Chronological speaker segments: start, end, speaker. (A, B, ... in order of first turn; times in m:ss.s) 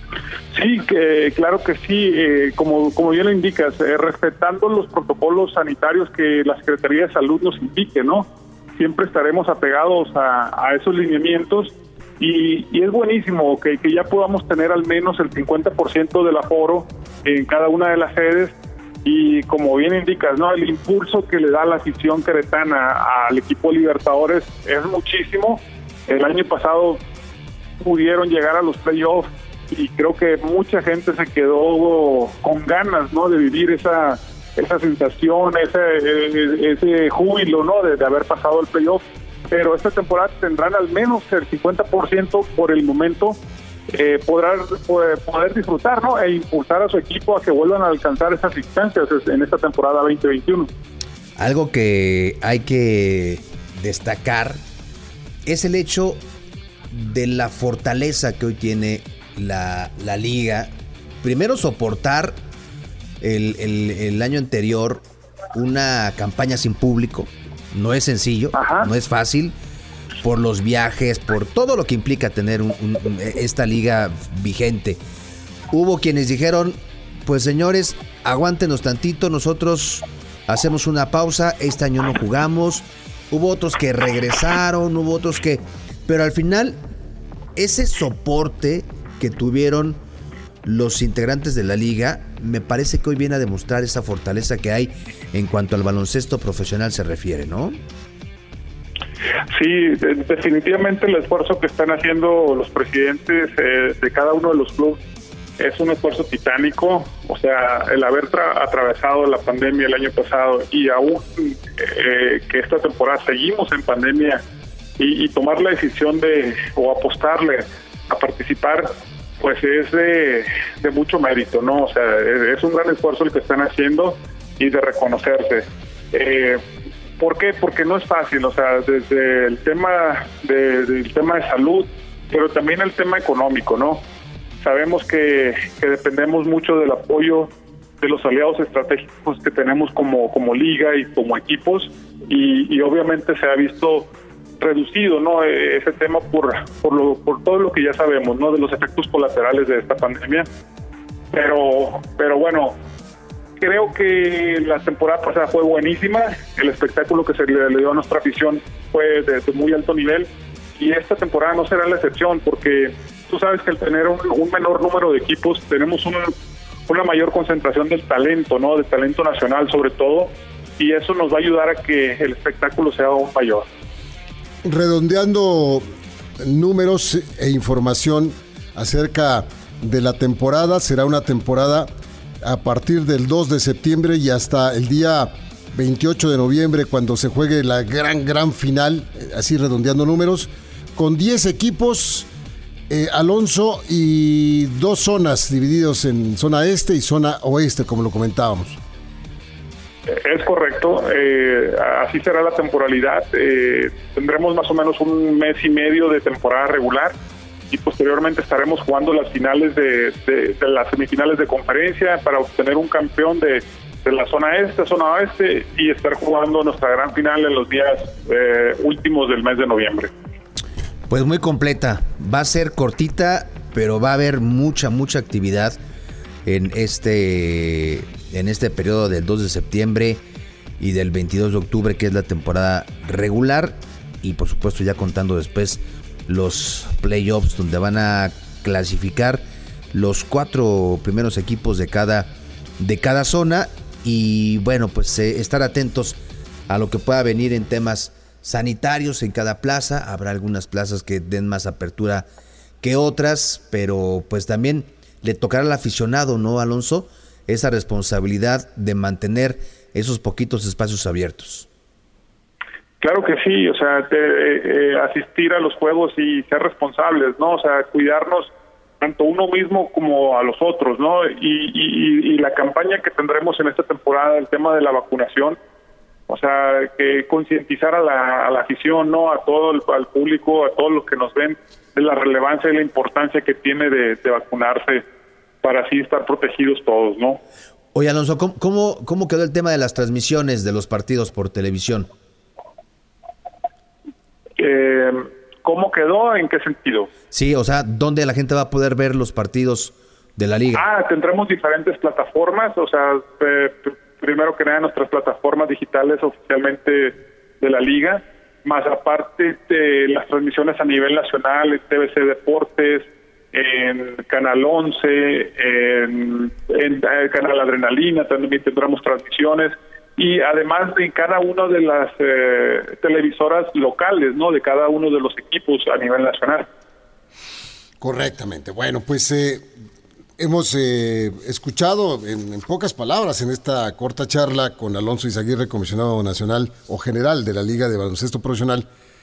0:00.5-0:18.5 A
0:19.0-0:27.0 A
0:27.8-0:43.4 A
0:43.9-0:50.7 A
0:51.4-0:54.6 B
0:55.4-0:56.2 B
0:56.9-1:00.7 B
1:01.2-1:02.4 B
1:03.2-1:09.5 B
1:08.5-1:08.9 A
1:10.2-1:15.0 B
1:15.7-1:26.8 B
1:27.6-1:30.0 B
1:30.6-1:37.8 B
1:39.5-1:45.0 A
1:45.6-1:54.4 A
1:55.0-2:06.6 A
2:07.2-2:14.0 A
2:14.6-2:30.4 A
2:31.3-2:32.8 A
2:33.6-2:46.3 A
2:46.9-2:53.6 A
2:54.6-2:55.8 C
2:56.4-3:01.9 C
3:02.4-3:12.3 C
3:12.9-3:18.8 C
3:20.1-3:27.1 A
3:27.7-3:40.1 A
3:41.1-3:45.8 B
3:46.4-3:50.2 B
3:50.8-4:06.2 B
4:06.7-4:12.3 B
4:12.8-4:21.7 B
4:23.0-4:35.6 A
4:36.3-4:45.0 A
4:45.6-4:47.4 A
4:47.9-4:52.1 B
4:54.6-4:57.1 A
4:57.3-5:00.8 B
5:00.7-5:26.6 A
5:28.0-5:29.6 C
5:30.4-5:38.8 C